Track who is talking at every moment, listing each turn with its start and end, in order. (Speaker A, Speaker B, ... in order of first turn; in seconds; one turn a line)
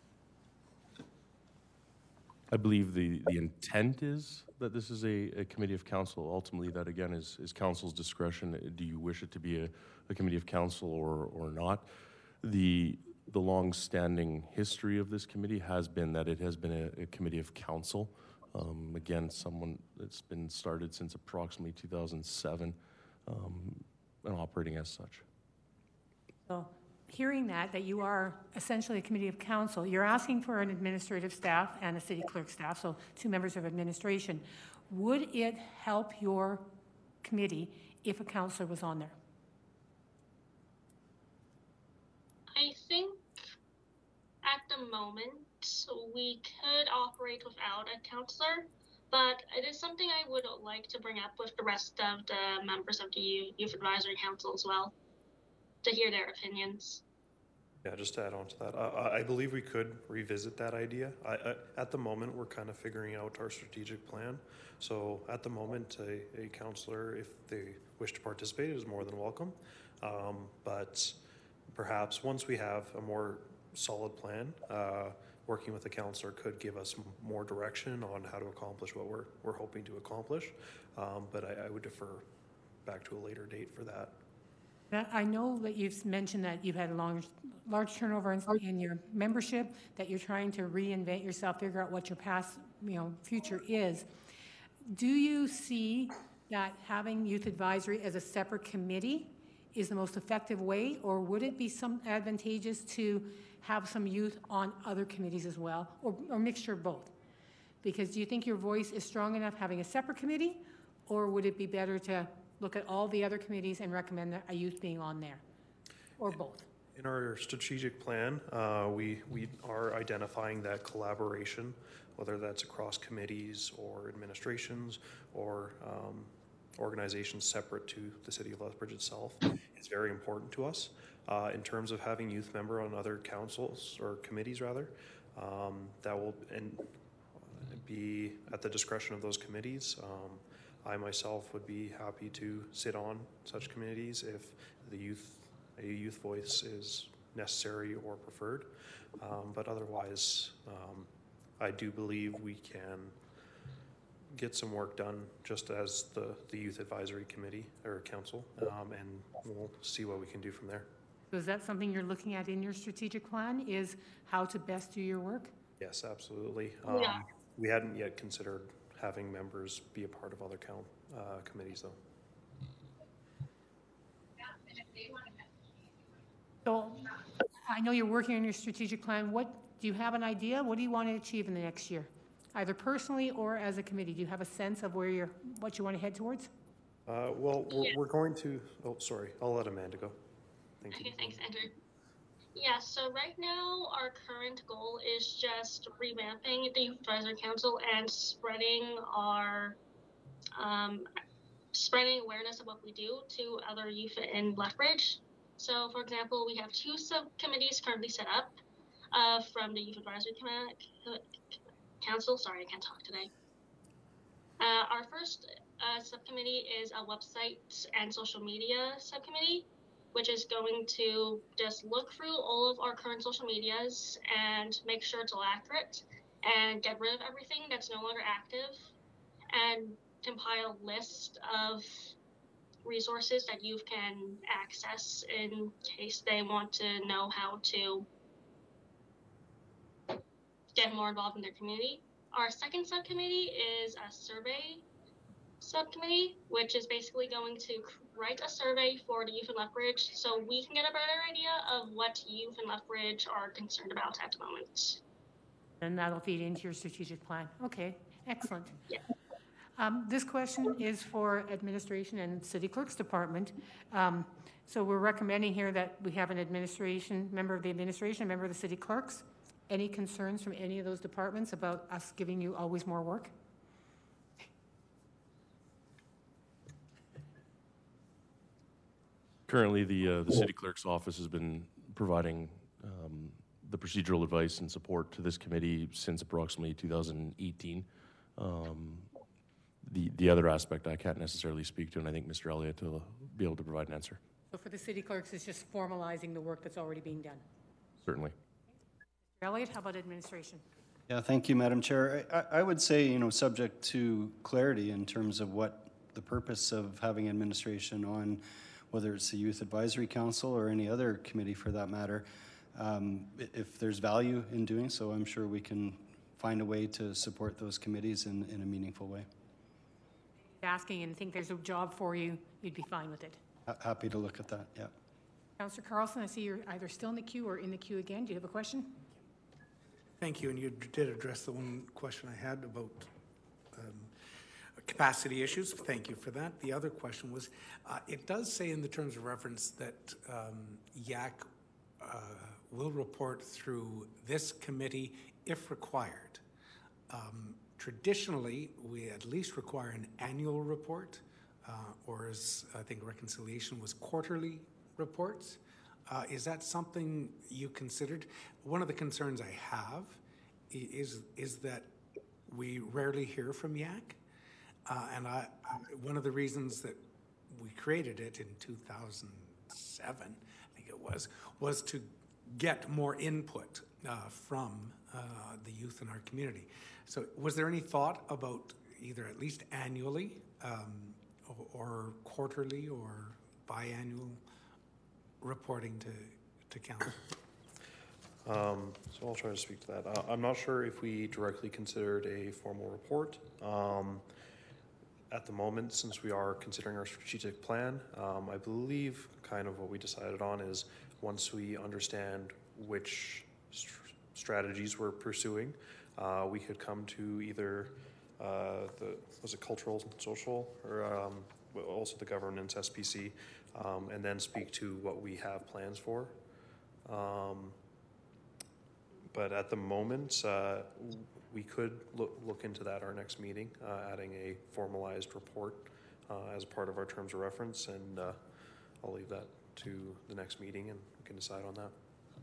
Speaker A: 2.5-25.2
Speaker B: 26.5-36.7
Speaker B: 37.2-39.1
Speaker C: 42.5-43.4
Speaker C: 44.4-54.9
Speaker C: 55.8-57.0
Speaker D: 57.8-82.2
Speaker D: 82.8-84.2
Speaker B: 84.9-94.1
Speaker B: 94.8-107.1
Speaker B: 107.8-115.4
Speaker B: 116.2-116.7
Speaker D: 116.9-153.2
Speaker D: 154.3-160.9
Speaker B: 161.3-165.5
Speaker D: 165.8-172.0
Speaker C: 166.8-167.2
Speaker B: 176.6-186.5
Speaker D: 187.1-190.2
Speaker D: 190.8-191.4
Speaker C: 190.9-191.7
Speaker C: 192.5-199.8
Speaker C: 200.6-201.1
Speaker C: 201.7-208.6
Speaker C: 209.1-213.3
Speaker C: 214.6-228.9
Speaker C: 229.5-232.1
Speaker C: 232.8-238.1
Speaker C: 240.7-244.8
Speaker C: 245.6-255.0
Speaker B: 255.8-258.8
Speaker B: 259.8-273.3
Speaker A: 279.5-289.1
Speaker A: 289.8-294.2
Speaker B: 294.5-297.4
Speaker A: 298.0-298.3
Speaker B: 299.4-300.6
Speaker E: 301.1-319.3
Speaker B: 320.6-323.4
Speaker E: 323.7-324.9
Speaker B: 325.6-329.0
Speaker F: 330.2-333.1
Speaker F: 333.7-334.1
Speaker F: 334.8-341.5
Speaker F: 342.0-346.4
Speaker F: 347.1-361.9
Speaker F: 362.5-364.2
Speaker F: 364.9-384.4
Speaker F: 385.4-387.2
Speaker D: 388.4-394.2
Speaker D: 395.3-416.4
Speaker D: 417.0-417.8
Speaker D: 419.3-428.4
Speaker D: 429.0-431.9